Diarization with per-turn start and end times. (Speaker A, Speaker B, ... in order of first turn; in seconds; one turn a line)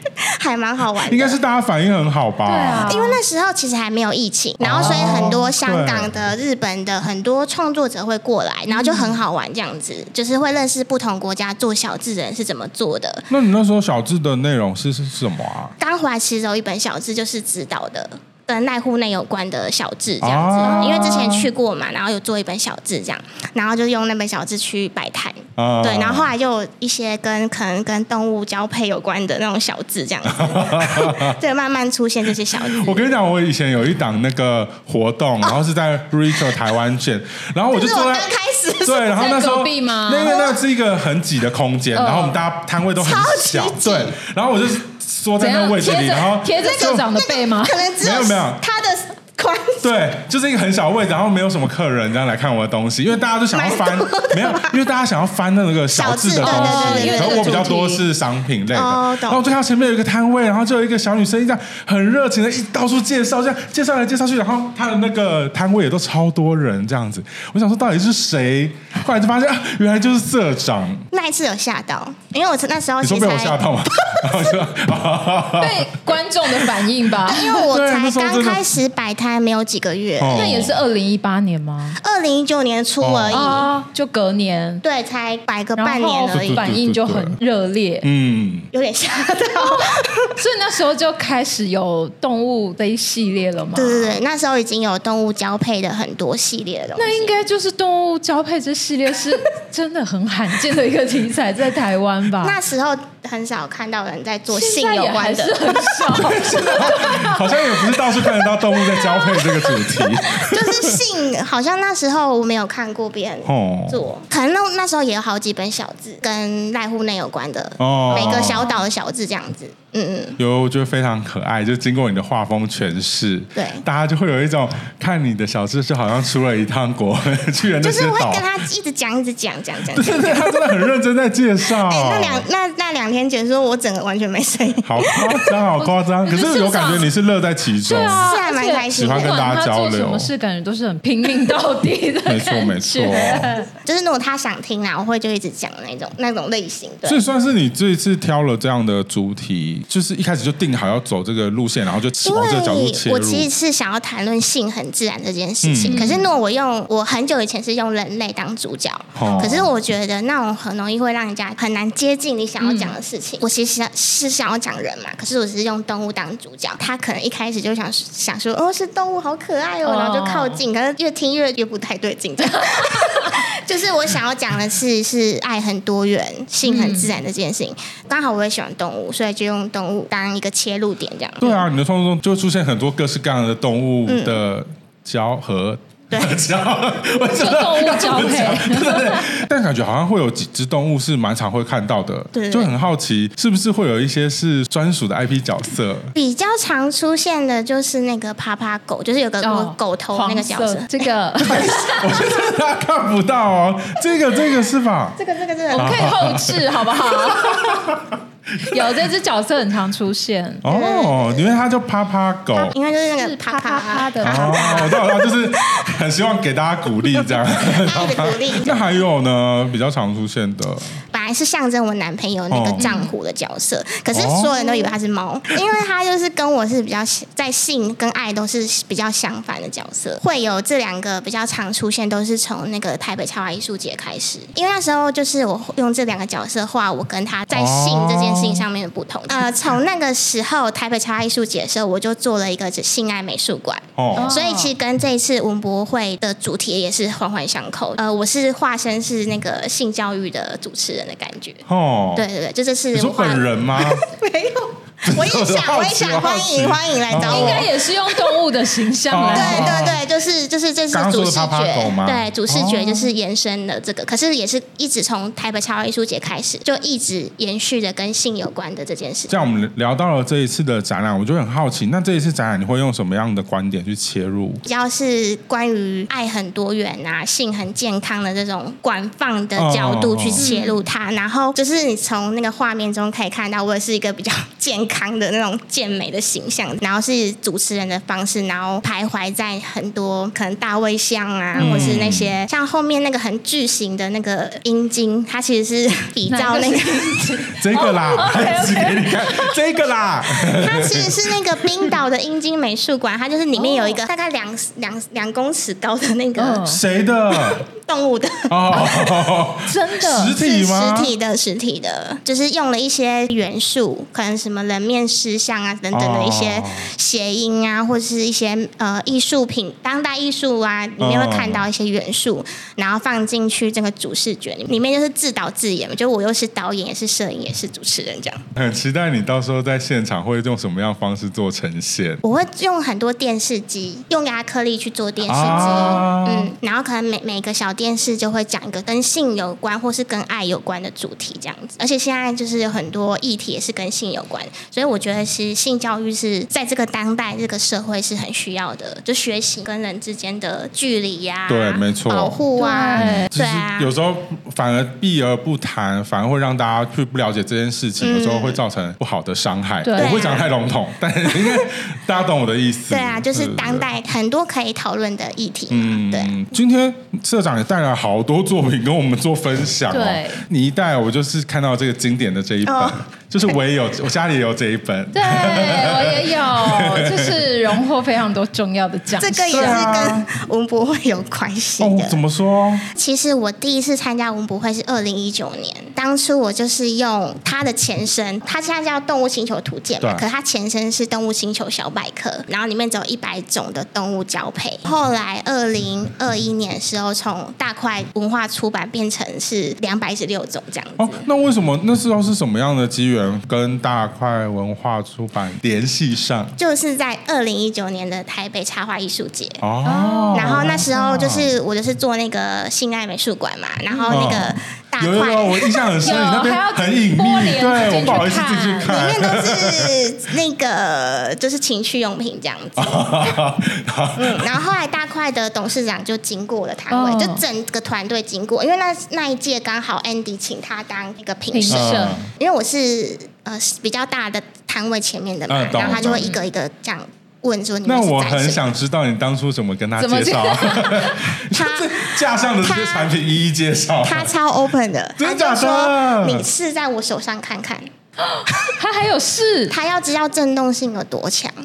Speaker A: 0.4-1.4
Speaker B: 1.1-2.9
Speaker C: 2.4-3.2
Speaker A: 2.9-13.3
Speaker B: 4.6-6.1
Speaker C: 4.8-5.3
Speaker C: 8.7-9.2
Speaker B: 13.3-15.7
Speaker A: 15.8-33.1
Speaker B: 20.2-21.5
Speaker C: 20.6-21.3
Speaker B: 25.6-26.3
Speaker B: 30.2-31.3
Speaker B: 32.6-38.3
Speaker A: 36.4-36.7
Speaker A: 37.7-39.1
Speaker B: 38.8-47.1
Speaker C: 39.0-40.4
Speaker A: 40.2-40.6
Speaker C: 41.9-42.4
Speaker A: 43.0-44.1
Speaker C: 45.4-47.9
Speaker A: 46.6-49.9
Speaker B: 48.0-48.6
Speaker B: 49.8-71.0
Speaker A: 53.5-54.8
Speaker A: 55.9-58.0
Speaker C: 56.4-57.9
Speaker A: 58.7-59.5
Speaker A: 71.1-73.6
Speaker B: 73.0-75.9
Speaker C: 75.6-77.7
Speaker B: 76.5-76.8
Speaker A: 77.3-80.5
Speaker B: 77.7-78.7
Speaker B: 80.2-80.8
Speaker C: 80.3-82.0
Speaker A: 82.0-83.7
Speaker B: 83.0-83.4
Speaker C: 83.3-84.8
Speaker A: 84.8-86.7
Speaker C: 85.8-88.1
Speaker B: 86.3-87.4
Speaker B: 88.0-88.7
Speaker A: 88.7-90.3
Speaker C: 89.6-94.2
Speaker A: 93.8-97.5
Speaker C: 97.0-102.6
Speaker A: 102.4-105.7
Speaker C: 104.5-107.5
Speaker B: 106.0-111.0
Speaker A: 110.5-120.4
Speaker B: 113.4-114.0
Speaker B: 117.8-118.7
Speaker C: 118.2-118.8
Speaker B: 120.4-128.4
Speaker A: 123.6-123.8
Speaker A: 127.8-130.7
Speaker B: 129.9-132.4
Speaker A: 131.8-135.6
Speaker B: 134.8-138.3
Speaker C: 136.2-137.1
Speaker C: 137.8-143.7
Speaker A: 137.9-139.4
Speaker B: 138.9-140.3
Speaker B: 142.2-143.5
Speaker A: 143.1-147.2
Speaker B: 147.0-153.5
Speaker A: 152.2-181.6
Speaker B: 155.6-156.1
Speaker C: 155.8-156.3
Speaker B: 159.1-159.7
Speaker C: 159.2-159.6
Speaker C: 162.6-163.0
Speaker C: 169.8-170.6
Speaker C: 176.6-177.2
Speaker B: 181.4-196.1
Speaker A: 184.1-184.4
Speaker A: 186.1-186.4
Speaker C: 187.3-189.3
Speaker A: 192.3-192.7
Speaker A: 196.1-201.1
Speaker C: 199.4-202.2
Speaker B: 201.4-205.2
Speaker A: 205.2-206.1
Speaker C: 205.7-208.0
Speaker B: 205.7-209.1
Speaker C: 208.7-210.9
Speaker B: 210.6-212.7
Speaker A: 210.7-211.6
Speaker A: 212.6-215.8
Speaker C: 213.2-215.0
Speaker B: 214.2-221.0
Speaker A: 217.1-219.0
Speaker A: 221.1-251.6
Speaker B: 222.5-222.8
Speaker C: 222.8-223.1
Speaker B: 224.1-224.9
Speaker B: 237.5-238.6
Speaker B: 244.0-244.4
Speaker C: 244.1-244.7
Speaker B: 251.7-252.2
Speaker A: 252.2-258.3
Speaker B: 252.9-254.0
Speaker B: 255.1-257.7
Speaker C: 257.2-259.9
Speaker B: 259.1-260.0
Speaker A: 259.3-269.4
Speaker B: 260.9-263.1
Speaker B: 269.3-274.6
Speaker A: 274.6-297.3
Speaker B: 279.5-280.5
Speaker C: 280.4-280.8
Speaker C: 291.5-291.9
Speaker B: 291.6-292.3
Speaker C: 296.3-299.6
Speaker B: 297.6-301.1
Speaker A: 300.6-306.7
Speaker C: 303.5-304.0
Speaker C: 306.4-306.8
Speaker B: 306.6-307.6
Speaker A: 307.8-309.2
Speaker B: 308.5-311.1
Speaker C: 309.6-310.4
Speaker A: 310.4-328.4
Speaker B: 315.9-316.9
Speaker B: 321.0-321.7
Speaker B: 328.6-332.2
Speaker A: 332.2-353.9
Speaker B: 335.2-336.5
Speaker B: 351.5-352.4
Speaker C: 352.6-353.3
Speaker B: 353.0-363.9
Speaker A: 358.0-358.6
Speaker C: 359.8-360.2
Speaker A: 359.9-360.5
Speaker A: 362.9-366.3
Speaker B: 365.7-377.4
Speaker C: 369.9-370.4
Speaker A: 372.6-373.6
Speaker C: 375.1-380.1
Speaker A: 379.2-382.2
Speaker B: 379.5-380.3
Speaker B: 381.8-382.9
Speaker A: 382.9-401.2
Speaker B: 390.0-390.3
Speaker B: 401.0-406.6
Speaker A: 406.6-409.6
Speaker B: 409.6-411.5
Speaker C: 409.8-410.9
Speaker A: 410.3-416.3
Speaker C: 413.9-414.2
Speaker B: 414.1-419.9
Speaker C: 416.0-419.0
Speaker A: 418.8-423.4
Speaker B: 422.8-424.5
Speaker A: 424.2-438.7
Speaker C: 426.9-427.4
Speaker C: 431.5-432.2
Speaker B: 431.7-432.3
Speaker B: 435.5-436.3
Speaker C: 435.8-436.4
Speaker B: 437.8-444.3
Speaker C: 440.0-441.3
Speaker A: 441.5-443.1
Speaker A: 444.0-447.9
Speaker B: 445.2-446.5
Speaker C: 448.2-449.8
Speaker A: 449.7-451.5